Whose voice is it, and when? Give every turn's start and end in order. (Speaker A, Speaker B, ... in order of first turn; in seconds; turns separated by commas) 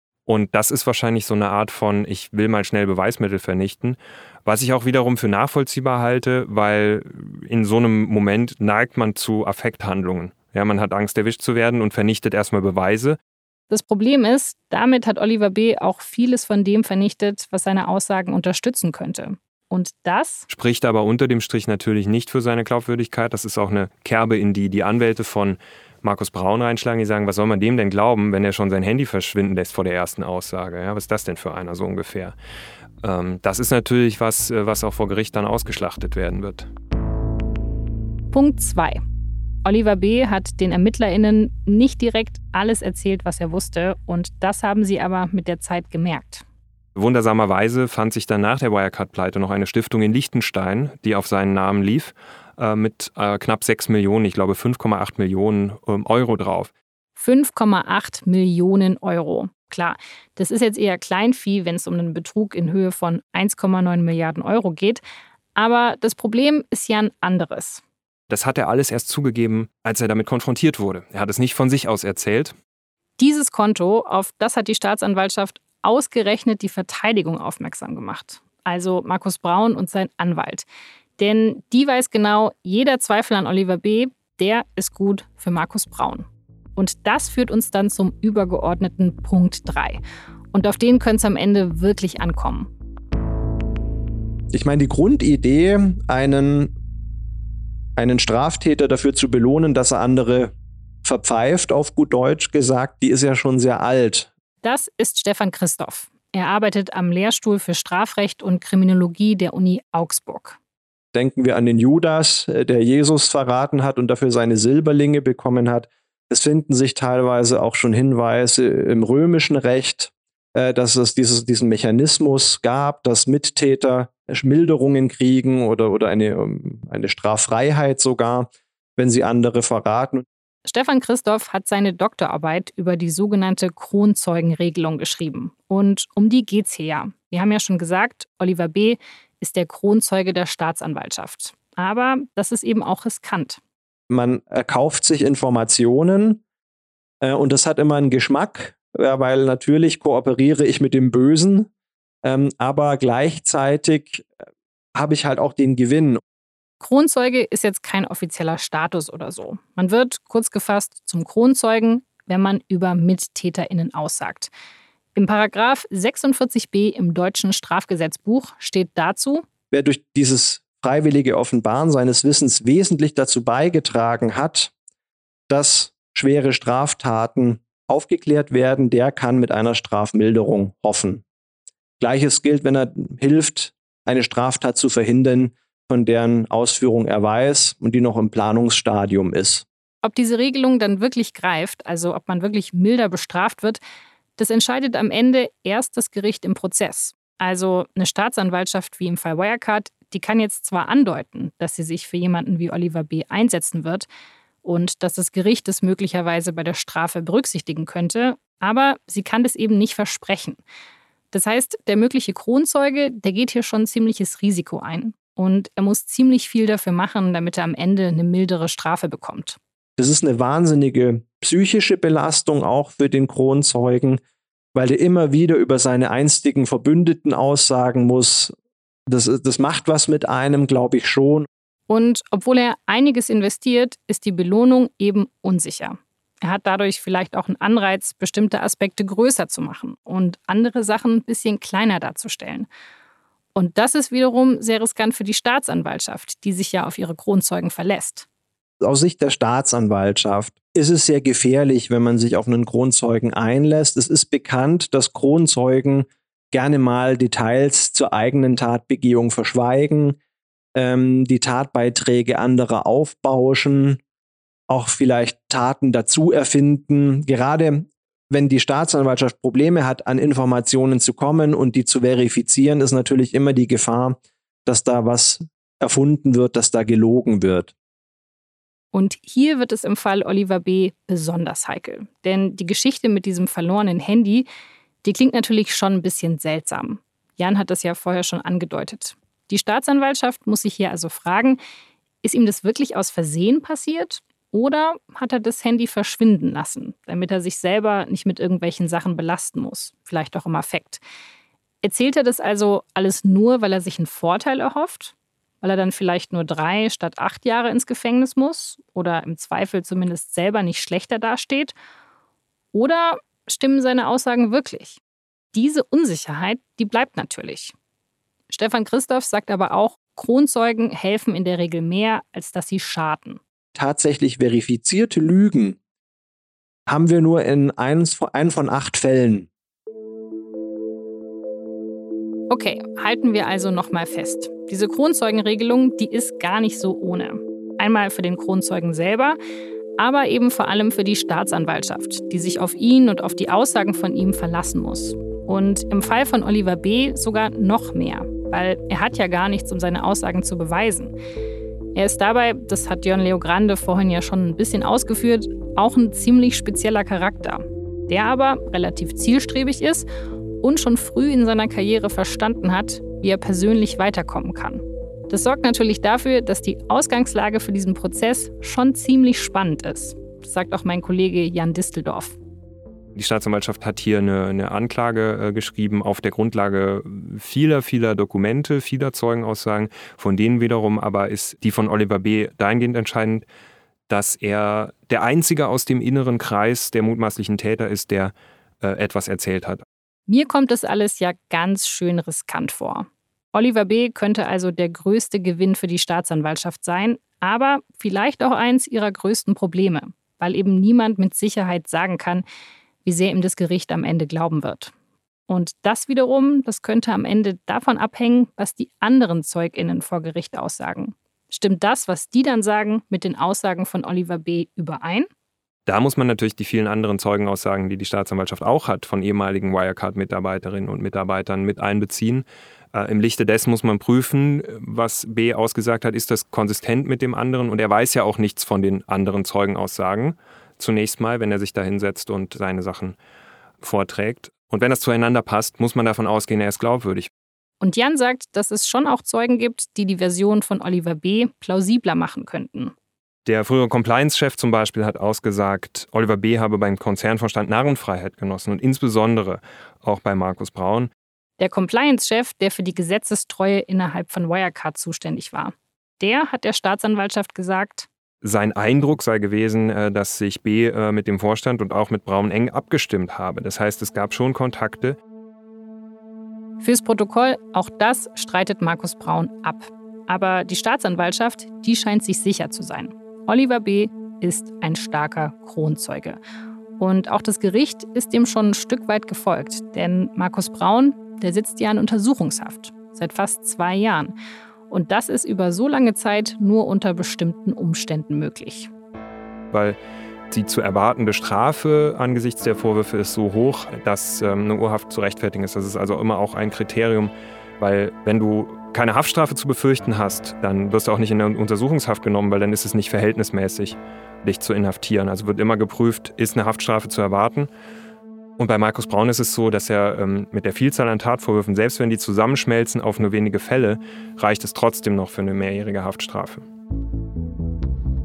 Speaker A: 0.3-13.2, Speaker B: 13.7-20.5, Speaker A: 20.5-32.4, Speaker A: 33.0-36.7, Speaker B: 38.3-39.0, Speaker B: 39.6-46.4, Speaker A: 47.0-56.7, Speaker B: 57.2-65.0, Speaker B: 65.6-67.8, Speaker A: 68.3-72.5, Speaker B: 73.2-80.7, Speaker B: 81.2-90.0, Speaker B: 90.5-92.7, Speaker C: 94.5-96.7, Speaker C: 98.0-100.5, Speaker C: 101.0-104.3, Speaker B: 104.6-110.6, Speaker C: 111.1-130.2, Speaker B: 130.7-143.6, Speaker C: 144.1-146.4, Speaker C: 147.2-151.7, Speaker C: 152.2-154.3, Speaker C: 155.0-156.2, Speaker B: 156.8-164.5, Speaker B: 165.2-169.4, Speaker C: 169.7-174.7, Speaker C: 175.5-181.2, Speaker C: 182.0-189.7, Speaker B: 190.0-193.8, Speaker B: 194.4-204.1, Speaker B: 204.6-210.6, Speaker B: 211.3-219.6, Speaker C: 220.0-224.2, Speaker C: 224.7-228.5, Speaker C: 229.1-231.5, Speaker B: 231.9-242.7, Speaker B: 243.6-248.3, Speaker C: 248.8-260.2, Speaker C: 260.8-264.0, Speaker C: 264.7-277.7, Speaker B: 278.9-284.5, Speaker B: 285.0-291.6, Speaker B: 292.2-301.0, Speaker B: 301.8-311.8, Speaker B: 312.7-315.0, Speaker B: 315.5-317.7, Speaker B: 318.5-323.4, Speaker C: 323.8-325.8, Speaker C: 326.9-329.5, Speaker B: 332.5-339.4, Speaker B: 340.0-351.1, Speaker B: 351.9-360.1, Speaker B: 360.6-372.4, Speaker A: 373.1-383.4, Speaker A: 384.1-389.8, Speaker B: 390.3-402.4, Speaker B: 403.1-404.9, Speaker B: 405.5-415.3, Speaker A: 415.9-433.2, Speaker A: 433.8-437.3, Speaker B: 437.8-442.9, Speaker A: 443.5-451.1, Speaker B: 451.6-458.1, Speaker A: 458.4-465.2, Speaker B: 466.8-476.4, Speaker B: 477.0-484.3, Speaker B: 484.9-488.9, Speaker A: 489.7-490.0, Speaker A: 490.5-507.7, Speaker A: 508.6-516.6